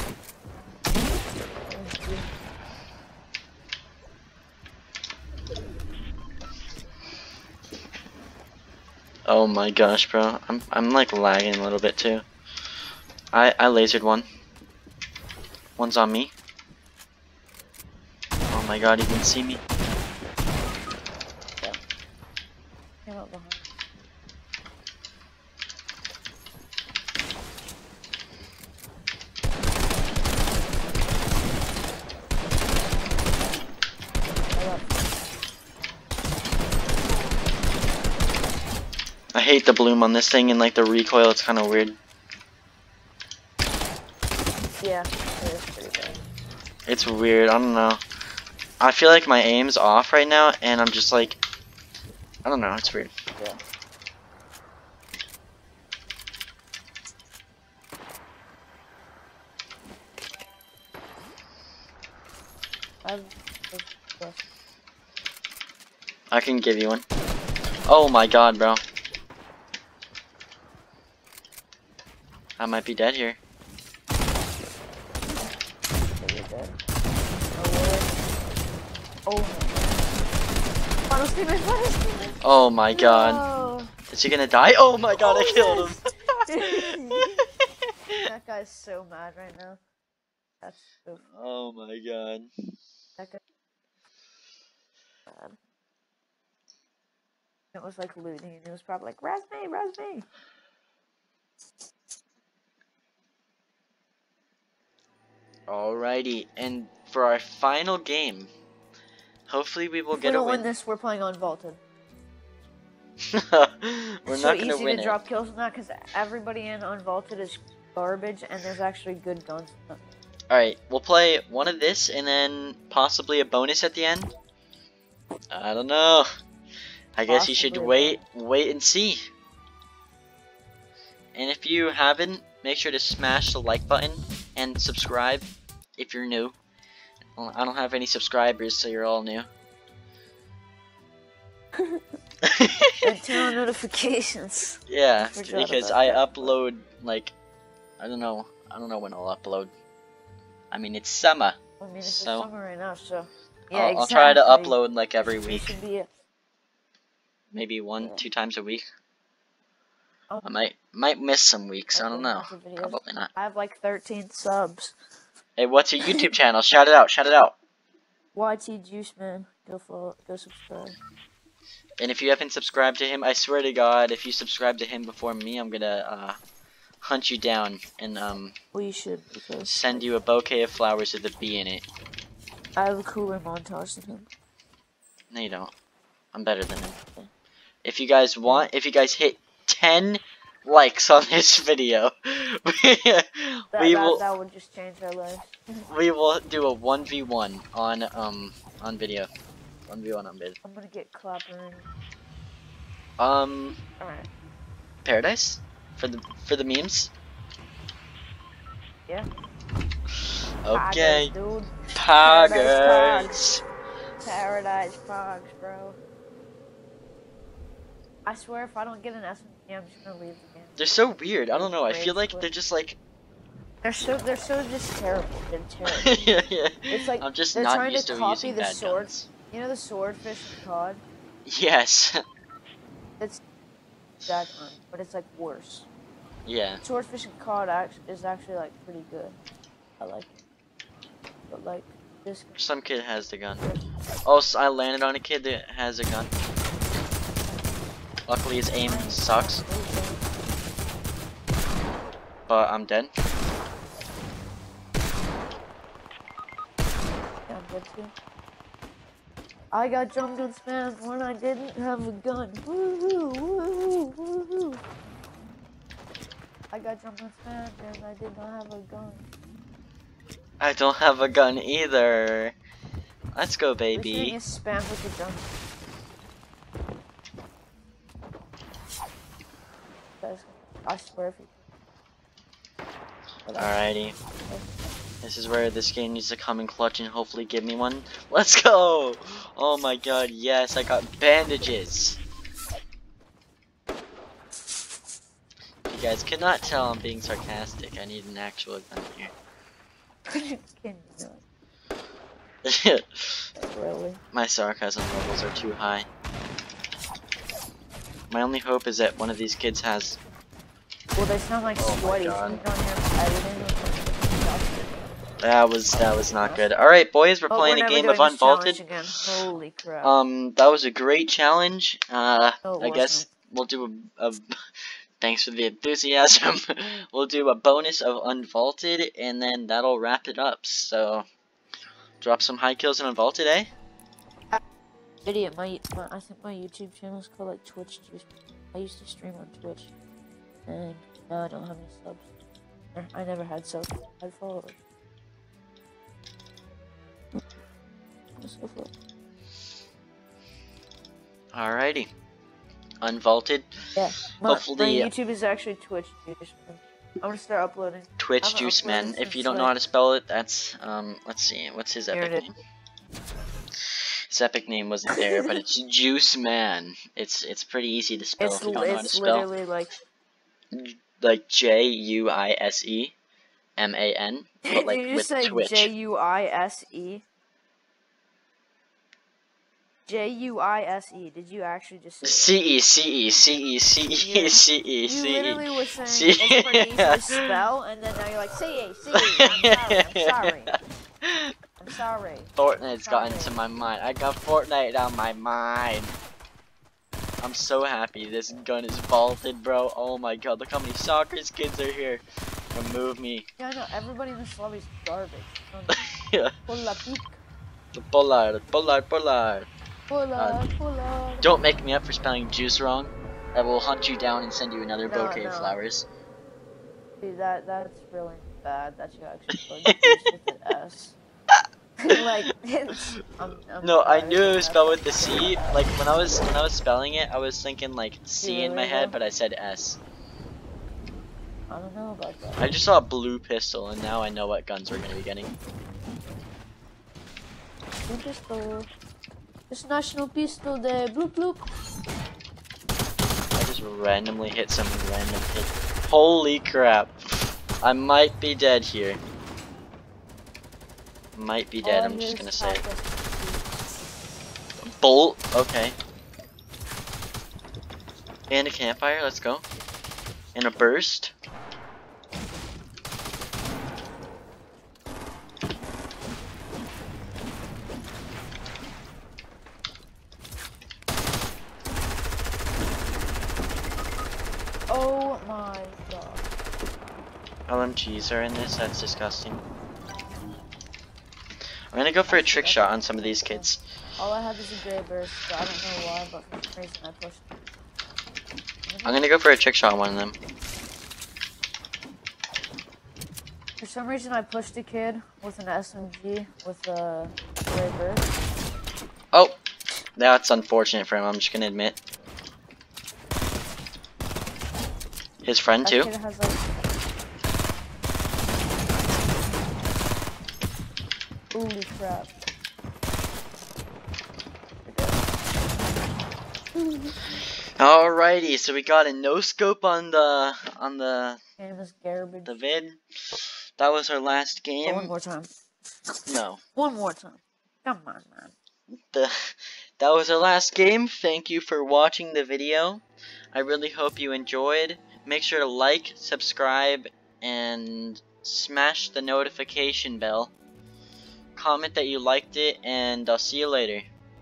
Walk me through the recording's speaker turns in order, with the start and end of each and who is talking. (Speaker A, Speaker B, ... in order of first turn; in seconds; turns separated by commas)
Speaker A: 1.6-2.3, Speaker B: 9.3-12.2, Speaker B: 13.3-14.3, Speaker B: 15.8-16.3, Speaker B: 18.5-19.6, Speaker A: 23.1-23.8, Speaker A: 34.5-34.9, Speaker B: 39.4-42.0, Speaker A: 44.8-46.2, Speaker B: 46.9-48.0, Speaker B: 48.8-51.4, Speaker B: 52.5-53.1, Speaker A: 63.0-64.5, Speaker B: 66.3-67.0, Speaker B: 67.9-68.8, Speaker B: 72.6-73.4, Speaker A: 76.2-76.8, Speaker A: 77.5-78.2, Speaker A: 79.3-79.9, Speaker A: 81.1-82.4, Speaker B: 82.4-83.5, Speaker A: 82.9-84.0, Speaker B: 84.0-87.6, Speaker A: 85.2-87.5, Speaker A: 88.1-89.8, Speaker A: 90.6-91.2, Speaker B: 91.2-92.5, Speaker A: 95.3-95.6, Speaker A: 97.7-100.3, Speaker B: 105.7-108.5, Speaker B: 109.5-110.7, Speaker A: 110.1-111.8, Speaker B: 113.3-115.2, Speaker A: 114.3-120.1, Speaker B: 120.5-124.3, Speaker B: 125.5-126.3, Speaker B: 127.1-129.2, Speaker A: 127.3-128.2, Speaker B: 131.3-136.6, Speaker B: 137.3-139.5, Speaker A: 141.8-142.0, Speaker B: 142.4-143.1, Speaker A: 143.0-146.6, Speaker B: 144.9-147.3, Speaker B: 148.0-149.7, Speaker B: 150.7-152.5, Speaker A: 151.8-154.8, Speaker B: 153.7-155.8, Speaker A: 155.5-156.1, Speaker B: 157.5-158.8, Speaker A: 158.0-158.3, Speaker A: 160.3-160.7, Speaker B: 160.4-163.3, Speaker A: 161.9-165.0, Speaker B: 165.6-167.6, Speaker A: 166.0-166.3, Speaker A: 168.3-171.0, Speaker B: 172.0-176.4, Speaker B: 177.0-178.6, Speaker A: 178.7-180.1, Speaker B: 179.6-181.8, Speaker A: 182.8-184.3, Speaker B: 185.3-185.7, Speaker B: 186.3-187.0, Speaker B: 187.8-194.2, Speaker A: 188.4-188.7, Speaker A: 193.7-195.8, Speaker B: 195.8-199.3, Speaker B: 199.9-200.6, Speaker A: 200.6-201.9, Speaker B: 203.2-203.8, Speaker A: 204.0-204.3, Speaker B: 205.0-207.1, Speaker B: 210.6-211.3, Speaker A: 210.7-213.5, Speaker B: 211.9-213.6, Speaker A: 214.2-216.0, Speaker A: 218.2-220.9, Speaker B: 220.8-223.0, Speaker A: 221.5-222.5, Speaker A: 223.8-226.3, Speaker B: 225.9-229.3, Speaker A: 226.9-231.0, Speaker B: 231.5-232.2, Speaker A: 234.2-235.9, Speaker B: 236.5-236.8, Speaker A: 236.8-239.4, Speaker A: 240.0-240.4, Speaker A: 241.5-242.8, Speaker B: 242.6-243.7, Speaker A: 243.5-243.8, Speaker B: 244.3-246.3, Speaker B: 248.3-249.6, Speaker A: 248.8-250.4, Speaker B: 252.5-253.1, Speaker A: 257.5-258.1, Speaker A: 259.7-264.8, Speaker A: 266.7-269.2, Speaker B: 270.6-272.6, Speaker B: 273.4-274.4, Speaker A: 273.9-275.6, Speaker A: 280.2-281.6, Speaker A: 283.5-284.7, Speaker B: 283.6-284.2, Speaker B: 285.2-292.2, Speaker B: 295.9-299.3, Speaker A: 300.3-301.4, Speaker B: 302.6-303.4, Speaker A: 303.6-304.2, Speaker B: 304.3-306.1, Speaker B: 308.3-310.2, Speaker A: 311.1-315.2, Speaker B: 311.8-312.6, Speaker B: 315.4-319.2, Speaker A: 315.9-316.7, Speaker A: 317.5-320.2, Speaker B: 320.0-324.4, Speaker A: 322.6-323.3, Speaker B: 325.2-331.3, Speaker B: 332.2-333.7, Speaker A: 335.2-339.9, Speaker A: 340.7-342.3, Speaker A: 342.9-344.8, Speaker A: 348.4-348.9, Speaker B: 351.5-352.1, Speaker B: 353.0-353.7, Speaker A: 354.0-359.8, Speaker B: 354.3-355.1, Speaker B: 358.2-362.5, Speaker A: 362.1-362.5, Speaker B: 364.3-369.5, Speaker A: 365.1-365.6, Speaker A: 368.4-369.9, Speaker B: 370.7-373.1, Speaker B: 373.8-375.9, Speaker A: 374.6-377.2, Speaker A: 380.1-382.6, Speaker B: 382.2-387.5, Speaker A: 384.2-390.8, Speaker B: 389.1-391.5, Speaker A: 391.8-393.6, Speaker B: 392.6-396.1, Speaker B: 397.4-403.5, Speaker A: 403.6-406.0, Speaker B: 405.9-406.6, Speaker A: 406.6-407.4, Speaker B: 407.9-409.7, Speaker A: 410.1-411.6, Speaker B: 410.4-410.7, Speaker B: 411.4-416.1, Speaker A: 415.1-415.8, Speaker A: 417.2-421.2, Speaker B: 419.5-420.3, Speaker B: 421.5-430.0, Speaker A: 422.0-426.0, Speaker A: 428.4-429.2, Speaker A: 431.7-432.7, Speaker B: 432.6-435.5, Speaker A: 438.1-438.9, Speaker A: 439.7-441.7, Speaker B: 443.6-449.2, Speaker B: 451.3-452.9, Speaker A: 451.8-453.8, Speaker B: 454.8-456.0, Speaker B: 458.5-459.6, Speaker B: 460.6-461.3, Speaker A: 474.9-476.5, Speaker B: 477.7-479.6, Speaker B: 481.9-483.8, Speaker A: 482.3-487.5, Speaker A: 488.9-489.4, Speaker B: 489.1-490.4, Speaker A: 493.8-498.3, Speaker B: 500.2-502.0, Speaker B: 505.4-506.1, Speaker A: 505.8-506.7, Speaker A: 511.5-512.3, Speaker A: 514.9-515.3, Speaker A: 516.8-517.2, Speaker B: 517.8-521.4, Speaker A: 521.6-522.6, Speaker B: 522.5-525.1, Speaker A: 524.8-525.5, Speaker B: 526.3-526.6, Speaker A: 526.8-528.5, Speaker B: 528.9-540.5, Speaker B: 541.6-544.1